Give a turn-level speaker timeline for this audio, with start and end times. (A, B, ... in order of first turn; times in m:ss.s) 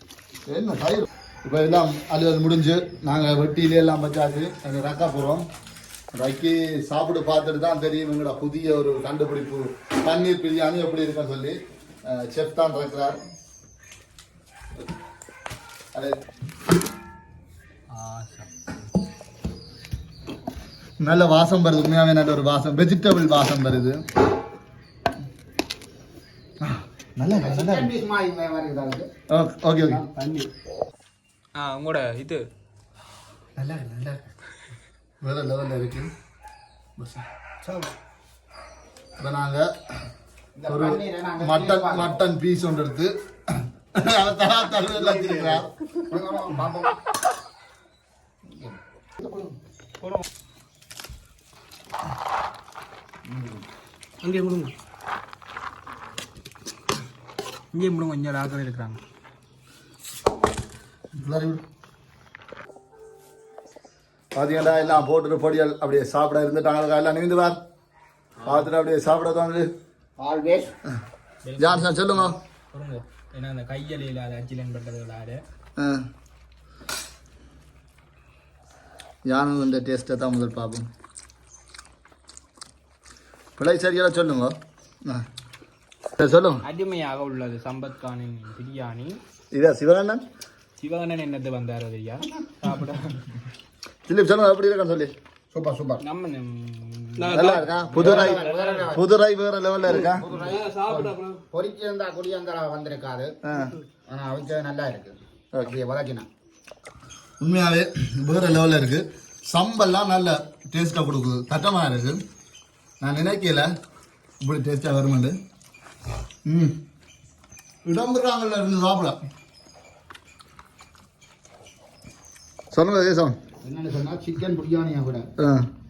0:00.5-0:05.4 A
0:06.2-0:13.2 A
0:18.2-0:18.5 B
0:21.0-0:24.0 A
0:26.6-0:28.0 A
0:27.4-0:29.1 C
0:29.3-0:30.0 A
0:31.6-0:32.5 B
0:33.6-0:34.2 A
0:35.2-0:36.1 A
0:39.2-0:39.7 A
0:40.6-0:42.2 C
0:40.7-0:43.1 A
0:44.0-0:45.7 A
0:45.0-0:45.6 C
0:46.1-0:47.0 C
0:48.6-0:49.4 C
0:50.0-0:50.3 B
0:53.3-0:53.6 C
0:54.2-0:54.7 D
0:57.7-0:59.0 B
1:01.1-1:01.6 A
1:04.3-1:07.6 A
1:08.4-1:09.7 A
1:10.2-1:10.7 C
1:11.4-1:15.4 B
1:11.6-1:12.4 A
1:19.3-1:20.9 A
1:23.6-1:25.2 A
1:26.2-1:26.6 A
1:26.7-1:29.2 B
1:29.5-1:30.2 A
1:30.8-1:33.2 B
1:34.1-1:35.1 A
1:35.5-1:36.0 C
1:36.0-1:37.2 B
1:37.2-1:38.9 D
1:37.3-1:40.3 A
1:38.0-1:39.0 C
1:39.9-1:41.4 D
1:40.1-1:43.3 C
1:43.4-1:43.8 A
1:44.1-1:46.3 C
1:47.4-1:52.2 A
1:53.0-1:53.7 A
1:54.4-1:55.4 A
1:56.5-1:56.8 A
1:57.8-1:59.2 A
2:02.7-2:03.4 A
2:03.6-2:05.3 C
2:05.4-2:05.7 A